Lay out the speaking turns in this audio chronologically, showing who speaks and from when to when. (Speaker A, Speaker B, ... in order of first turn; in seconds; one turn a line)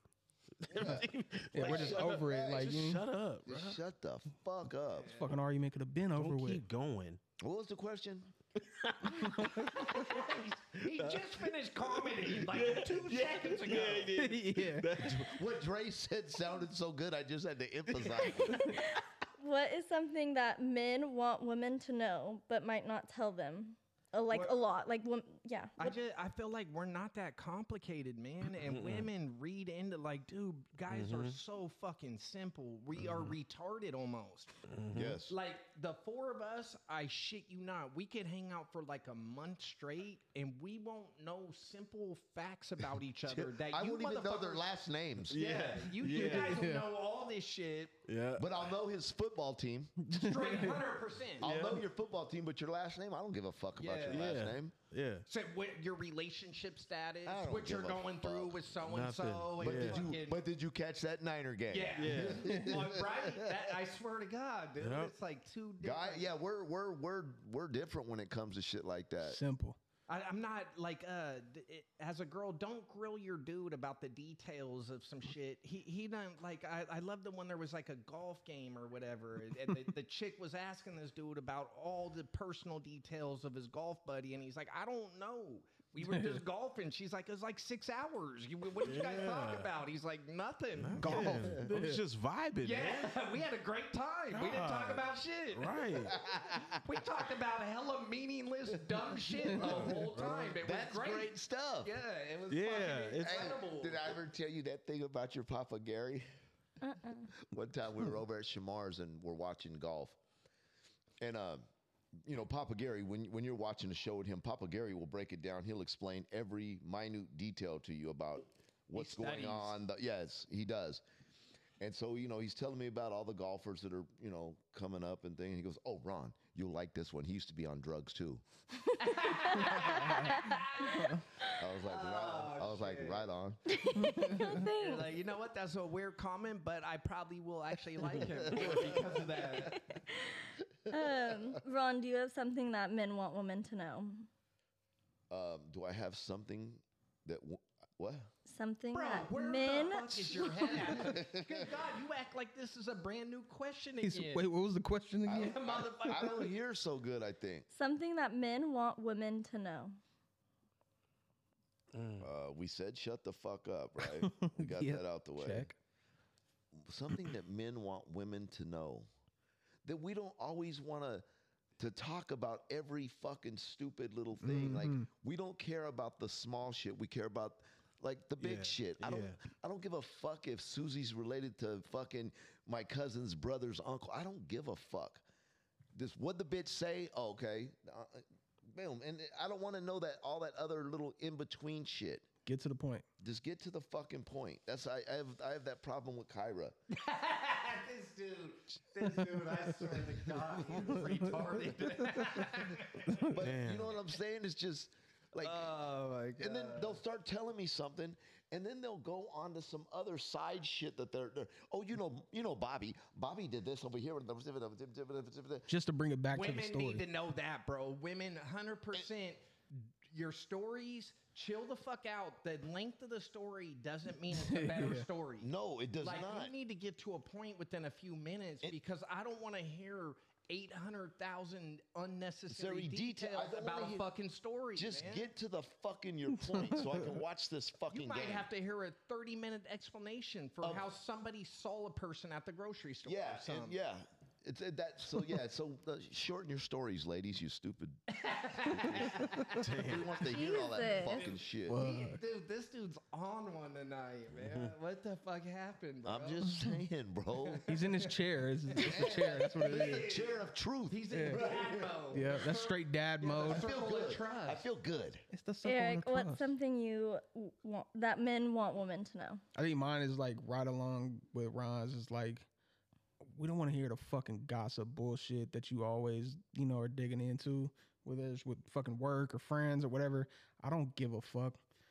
Speaker A: 0.6-3.8
Speaker B: 0.7-2.8
Speaker C: 1.5-3.0
Speaker B: 3.5-5.2
Speaker D: 5.0-5.3
Speaker C: 5.1-6.6
Speaker A: 6.2-7.2
Speaker B: 7.4-8.3
Speaker A: 8.6-15.4
Speaker D: 9.7-14.1
Speaker C: 14.2-15.0
Speaker B: 15.0-18.9
Speaker E: 18.2-26.0
Speaker D: 24.3-24.6
Speaker D: 25.8-34.6
Speaker A: 28.6-29.1
Speaker A: 30.9-31.4
Speaker A: 33.0-33.3
Speaker A: 34.7-35.2
Speaker B: 34.9-35.3
Speaker D: 35.3-44.6
Speaker B: 43.5-45.4
Speaker A: 45.3-46.7
Speaker D: 45.3-48.0
Speaker C: 46.1-46.9
Speaker A: 48.0-48.5
Speaker B: 48.4-49.9
Speaker C: 50.0-50.8
Speaker D: 50.1-51.5
Speaker B: 51.4-54.7
Speaker A: 51.4-51.8
Speaker D: 53.8-54.3
Speaker A: 54.1-55.3
Speaker D: 55.3-60.4
Speaker B: 57.2-58.7
Speaker A: 58.8-60.1
Speaker B: 59.6-63.7
Speaker D: 61.7-66.3
Speaker A: 61.9-62.6
Speaker A: 64.8-65.1
Speaker B: 65.8-69.4
Speaker C: 69.2-69.8
Speaker D: 70.1-91.3
Speaker C: 86.0-86.4
Speaker A: 88.8-89.7
Speaker A: 90.8-93.2
Speaker C: 91.0-92.0
Speaker D: 92.6-104.2
Speaker A: 94.3-96.2
Speaker B: 96.1-96.8
Speaker B: 99.5-101.9
Speaker A: 99.8-100.4
Speaker A: 102.5-103.5
Speaker B: 103.2-106.2
Speaker E: 106.8-107.3
Speaker B: 107.3-110.2
Speaker B: 111.2-111.6
Speaker B: 112.2-121.0
Speaker D: 118.9-119.8
Speaker B: 121.8-128.4
Speaker D: 129.0-131.2
Speaker E: 129.4-130.6
Speaker C: 129.8-131.2
Speaker B: 131.4-133.8
Speaker D: 131.8-133.3
Speaker E: 133.7-135.1
Speaker C: 134.0-134.6
Speaker D: 134.4-139.9
Speaker B: 138.2-139.7
Speaker E: 139.7-144.3
Speaker B: 140.9-141.6
Speaker B: 145.3-148.3
Speaker E: 148.5-150.9
Speaker D: 148.9-154.4
Speaker B: 150.8-151.7
Speaker C: 154.0-155.6
Speaker B: 155.2-157.7
Speaker D: 155.3-156.5
Speaker E: 157.7-160.0
Speaker A: 161.9-162.3
Speaker B: 162.2-165.7
Speaker C: 164.2-165.7
Speaker B: 166.7-169.1
Speaker B: 169.8-171.2
Speaker B: 171.8-185.2
Speaker C: 174.4-175.1
Speaker A: 178.4-179.4
Speaker B: 185.9-192.3
Speaker C: 192.4-193.0
Speaker B: 193.2-196.8
Speaker D: 196.9-203.2
Speaker B: 200.2-201.2
Speaker B: 202.4-205.8
Speaker A: 203.3-204.0
Speaker D: 205.4-207.0
Speaker B: 206.4-215.7
Speaker C: 215.7-217.0
Speaker D: 216.3-225.5
Speaker C: 224.3-225.1
Speaker B: 225.4-226.5
Speaker D: 226.0-235.3
Speaker B: 232.5-234.1
Speaker B: 234.8-238.5
Speaker C: 236.5-236.9
Speaker D: 237.9-243.8
Speaker B: 240.6-240.9
Speaker B: 243.0-248.0
Speaker D: 248.1-249.6
Speaker B: 248.7-251.8
Speaker A: 249.5-250.2
Speaker E: 250.2-251.2
Speaker D: 250.9-256.5
Speaker C: 251.7-252.2
Speaker A: 254.4-254.7
Speaker B: 256.0-257.7
Speaker C: 256.5-256.7
Speaker D: 257.4-258.1
Speaker C: 257.7-260.1
Speaker D: 258.7-264.6
Speaker B: 258.8-262.5
Speaker C: 261.1-261.4
Speaker C: 262.1-263.7
Speaker B: 263.4-265.2
Speaker C: 265.3-266.5
Speaker E: 265.6-269.4
Speaker C: 269.5-272.4
Speaker C: 273.2-281.6